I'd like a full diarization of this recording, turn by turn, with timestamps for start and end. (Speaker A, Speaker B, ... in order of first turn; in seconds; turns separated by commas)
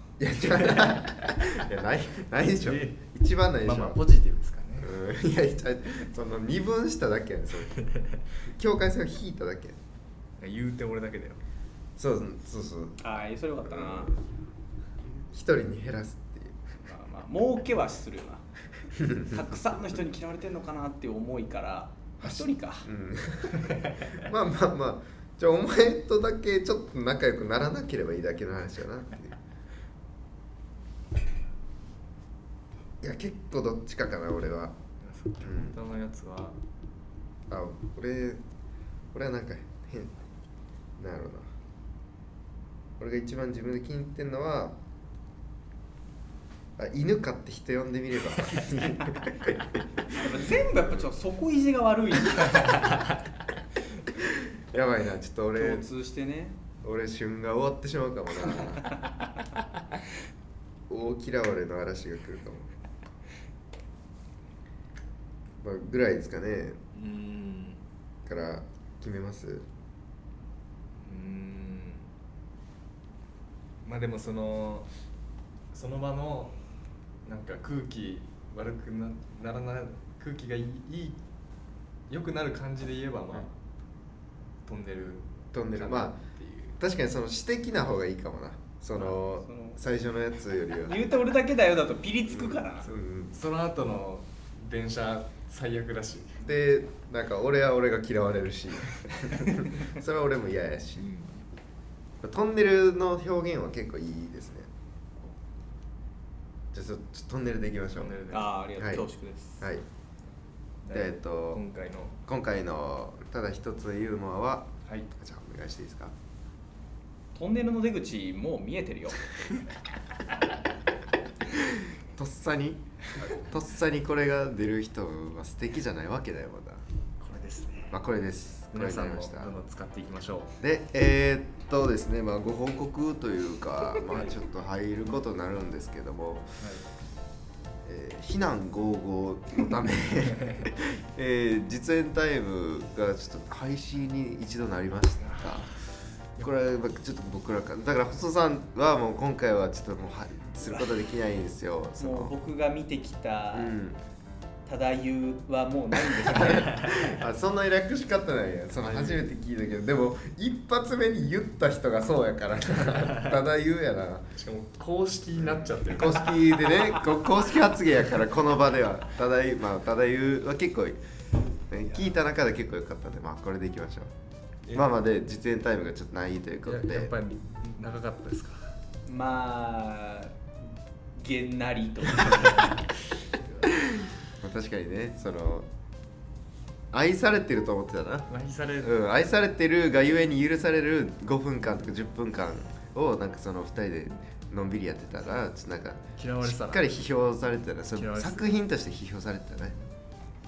Speaker A: 0.2-4.0, Speaker B: 0.6-1.3, Speaker B: 2.6-3.0, Speaker B: 3.6-4.9, Speaker A: 4.8-7.8, Speaker B: 7.7-8.2, Speaker A: 8.5-9.8, Speaker B: 10.4-11.4, Speaker A: 12.0-13.0, Speaker C: 13.0-14.2, Speaker A: 13.7-14.2, Speaker A: 15.3-16.6, Speaker C: 16.8-18.5, Speaker A: 19.0-19.4, Speaker C: 19.1-22.9, Speaker A: 22.2-29.4, Speaker A: 33.0-34.8, Speaker B: 35.0-36.6, Speaker A: 35.4-35.8, Speaker A: 37.5-38.4, Speaker A: 39.1-40.2, Speaker A: 41.0-41.5, Speaker A: 43.0-44.8, Speaker A: 46.8-50.3, Speaker C: 50.1-52.9, Speaker A: 54.2-55.9, Speaker C: 55.6-56.6, Speaker A: 56.8-58.9, Speaker A: 60.9-62.7, Speaker A: 65.6-66.8, Speaker B: 66.9-67.8, Speaker A: 68.3-69.7, Speaker B: 71.0-72.1, Speaker B: 73.8-74.9, Speaker B: 75.7-76.6, Speaker B: 77.2-81.2, Speaker B: 82.1-83.5, Speaker B: 84.7-86.8, Speaker A: 85.5-86.2, Speaker A: 86.8-91.0, Speaker C: 89.0-89.8, Speaker C: 90.9-92.9, Speaker A: 92.3-93.3, Speaker B: 93.3-96.4, Speaker A: 96.4-101.1, Speaker B: 101.0-101.4, Speaker A: 102.2-104.7, Speaker A: 106.7-108.2, Speaker B: 107.9-108.6, Speaker C: 108.3-109.7, Speaker A: 108.8-109.1, Speaker B: 110.8-112.2, Speaker A: 110.9-111.6, Speaker A: 112.3-116.2, Speaker C: 117.3-119.3, Speaker A: 121.5-126.8, Speaker B: 127.2-128.0, Speaker A: 127.9-129.5, Speaker B: 128.7-130.6, Speaker A: 130.6-136.5, Speaker B: 136.6-136.8, Speaker A: 137.8-145.7, Speaker B: 145.2-145.6, Speaker A: 146.4-152.3, Speaker C: 150.7-150.9, Speaker C: 152.0-153.7, Speaker A: 153.5-154.0, Speaker C: 154.7-157.0, Speaker A: 156.1-164.3, Speaker B: 158.8-159.2, Speaker B: 162.8-163.4, Speaker B: 164.3-166.5, Speaker A: 165.4-171.0, Speaker A: 171.7-174.1, Speaker B: 174.7-174.9, Speaker A: 174.7-177.1, Speaker B: 176.6-178.7, Speaker C: 179.1-180.4, Speaker C: 181.2-182.8, Speaker A: 183.8-185.7, Speaker A: 186.9-188.3, Speaker B: 188.3-188.9, Speaker A: 188.8-199.8, Speaker B: 196.2-197.0, Speaker B: 197.9-198.5